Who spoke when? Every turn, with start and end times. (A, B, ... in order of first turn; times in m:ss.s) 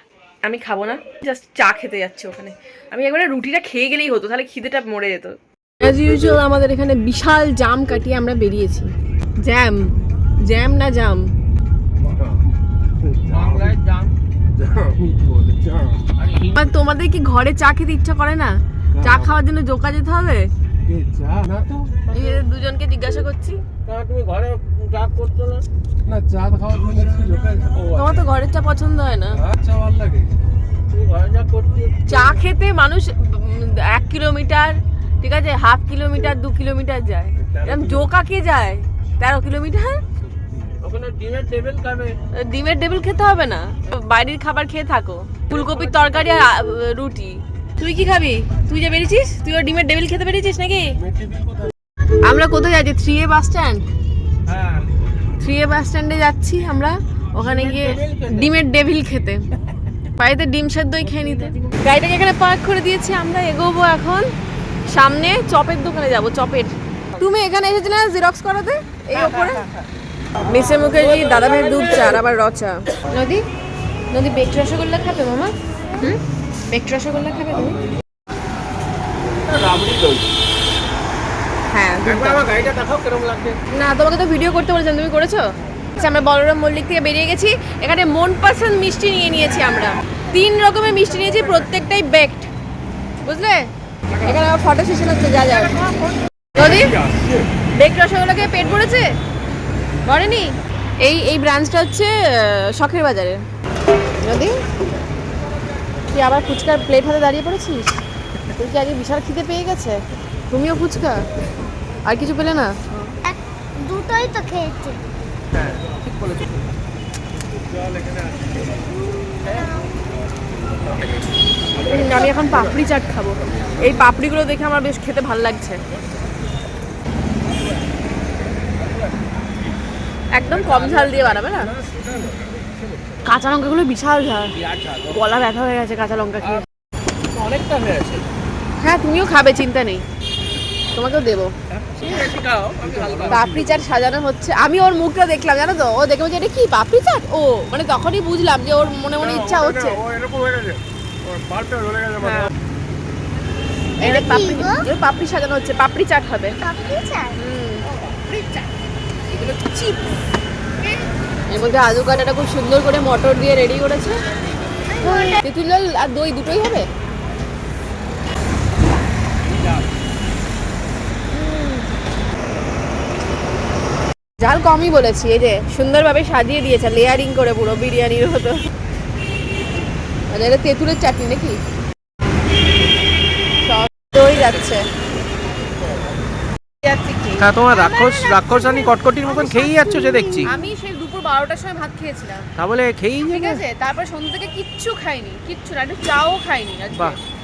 0:00.4-0:11.3 A
0:12.0-0:12.4 B
0:13.0-0:13.7 B
0:13.2-0:14.2 C
0:14.6-0:16.1 B
0:16.1-0:16.7 C
0:16.5-0:20.5 A
0:19.0-0:19.3 B
0:20.8-0:22.0 B
0:22.1-0:22.4 C
0:22.1-0:23.6 A
0:23.9-0:25.6 C
0:26.1-0:28.2 B
0:27.9-0:29.4 A
0:29.4-0:30.4 B
0:30.9-0:32.4 C
0:32.1-0:40.0 A
0:37.5-0:38.1 B
0:40.8-0:42.2 C
0:42.3-0:51.0 A
0:45.5-0:46.5 C
0:51.0-0:51.7 B
0:52.2-0:53.9 A
0:54.5-0:55.0 C
0:55.4-0:59.4 A
0:57.4-0:58.5 C
1:00.2-1:04.3 A
1:01.0-1:01.8 C
1:04.9-1:09.7 A
1:09.1-1:09.8 C
1:10.4-1:13.4 A
1:10.8-1:12.2 C
1:14.1-1:17.8 A
1:17.5-1:17.8 C
1:19.2-1:20.3 C
1:21.7-1:22.4 A
1:22.0-1:23.6 C
1:23.7-1:32.5 A
1:33.2-1:33.7 A
1:34.2-1:35.8 A
1:35.4-1:36.2 C
1:36.5-1:37.0 A
1:37.1-1:37.4 B
1:37.7-1:39.2 A
1:40.0-1:43.4 A
1:44.2-1:44.6 A
1:46.1-1:51.3 A
1:52.0-1:53.2 A
1:53.3-1:55.0 D
1:55.5-1:56.7 C
1:57.6-1:59.1 B
1:59.4-1:59.8 C
2:01.8-2:02.8 B
2:01.8-2:05.8 A
2:08.8-2:09.2 C
2:10.3-2:11.7 A
2:10.5-2:11.5 C
2:11.5-2:12.7 B
2:13.2-2:14.6 A
2:14.5-2:15.4 C
2:15.1-2:16.6 A
2:17.3-2:18.3 C
2:18.8-2:20.0 A
2:20.9-2:21.5 A
2:21.7-2:23.7 C
2:22.9-2:23.5 B
2:23.3-2:30.0 A
2:29.2-2:32.5 B
2:32.2-2:32.5 A
2:34.0-2:36.6 A
2:34.0-2:34.7 D
2:36.6-2:37.3 D
2:37.3-2:37.9 A
2:37.9-2:38.7 C
2:39.3-2:40.0 A
2:41.5-2:44.2 A
2:45.0-2:46.9 A
2:45.0-2:45.3 D
2:51.3-2:51.9 A
2:54.4-2:58.6 A
3:00.3-3:01.6 A
3:03.6-3:04.9 A
3:06.8-3:08.9 A
3:07.4-3:10.5 C
3:09.4-3:09.8 A
3:10.4-3:12.5 A
3:12.6-3:13.6 C
3:13.3-3:17.2 A